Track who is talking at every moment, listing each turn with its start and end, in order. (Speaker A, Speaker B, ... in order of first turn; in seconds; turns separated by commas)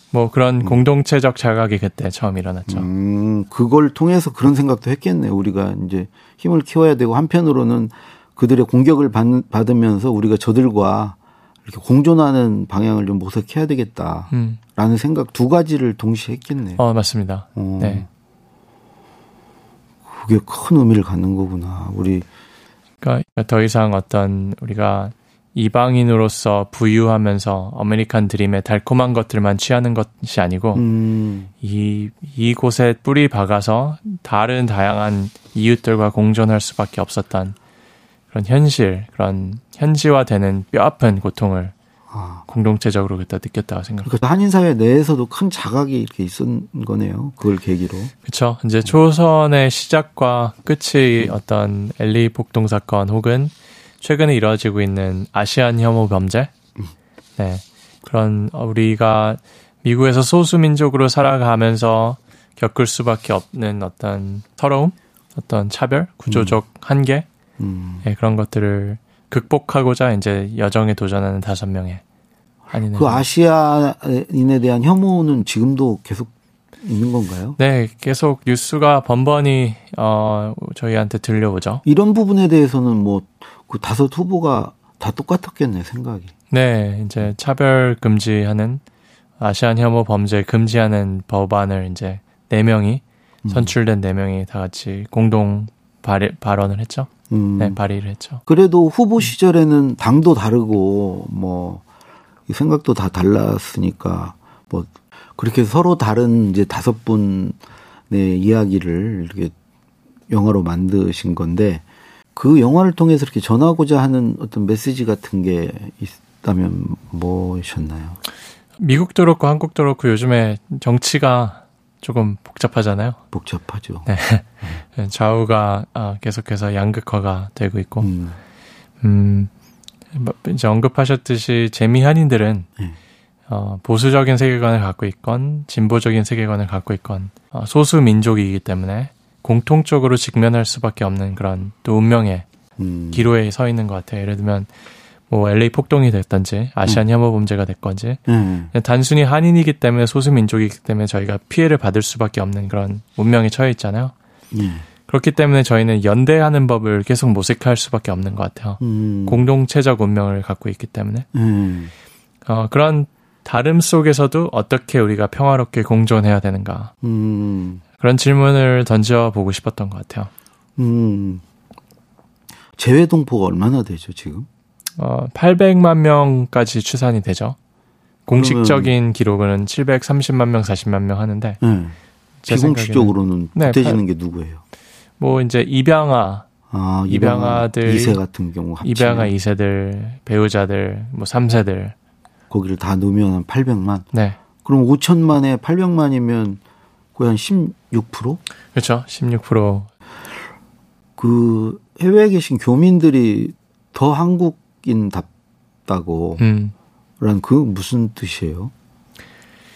Speaker A: 0.1-2.9, Speaker B: 2.7-16.8, Speaker A: 14.3-14.6, Speaker A: 16.8-18.1, Speaker B: 17.6-18.1, Speaker B: 20.1-22.3, Speaker A: 23.0-30.8, Speaker B: 30.8-31.5, Speaker A: 31.6-37.6, Speaker A: 38.3-41.7, Speaker B: 42.1-42.5, Speaker A: 42.5-44.1, Speaker B: 44.0-48.1, Speaker A: 48.2-56.5, Speaker A: 57.4-67.3, Speaker B: 66.3-66.6, Speaker B: 67.6-68.0, Speaker A: 68.0-72.0, Speaker A: 72.7-73.2, Speaker B: 73.0-77.6, Speaker A: 77.6-81.8, Speaker B: 81.8-86.3, Speaker A: 86.5-88.8, Speaker A: 89.4-98.4, Speaker B: 93.4-93.7, Speaker B: 97.3-97.8, Speaker B: 98.5-101.8, Speaker B: 102.5-109.5, Speaker B: 110.3-111.8, Speaker B: 112.4-118.2, Speaker A: 118.8-123.2, Speaker B: 123.3-124.1, Speaker A: 124.1-128.1, Speaker B: 128.0-128.4, Speaker A: 129.0-129.5, Speaker A: 130.2-132.7, Speaker A: 133.5-142.5, Speaker B: 142.8-143.3, Speaker A: 143.1-144.7, Speaker A: 145.3-148.2, Speaker B: 148.3-148.7, Speaker A: 148.7-154.1, Speaker B: 154.5-154.9, Speaker A: 155.1-161.3, Speaker B: 158.8-159.5, Speaker B: 161.3-161.9, Speaker A: 162.5-166.9, Speaker B: 167.0-167.8, Speaker A: 168.0-170.3, Speaker B: 170.8-171.4, Speaker B: 172.8-174.5, Speaker A: 175.0-177.6, Speaker A: 178.3-181.6, Speaker B: 178.3-178.9, Speaker B: 181.6-182.0, Speaker A: 182.4-184.0, Speaker B: 182.5-184.6, Speaker A: 185.2-186.5, Speaker B: 186.7-189.3, Speaker A: 187.1-188.2, Speaker A: 188.8-191.9, Speaker B: 192.5-194.1, Speaker A: 194.1-194.4, Speaker B: 194.6-196.6, Speaker B: 197.2-198.4, Speaker A: 198.7-199.9, Speaker B: 201.2-205.3, Speaker B: 205.9-206.4, Speaker A: 206.4-206.7, Speaker B: 207.2-208.7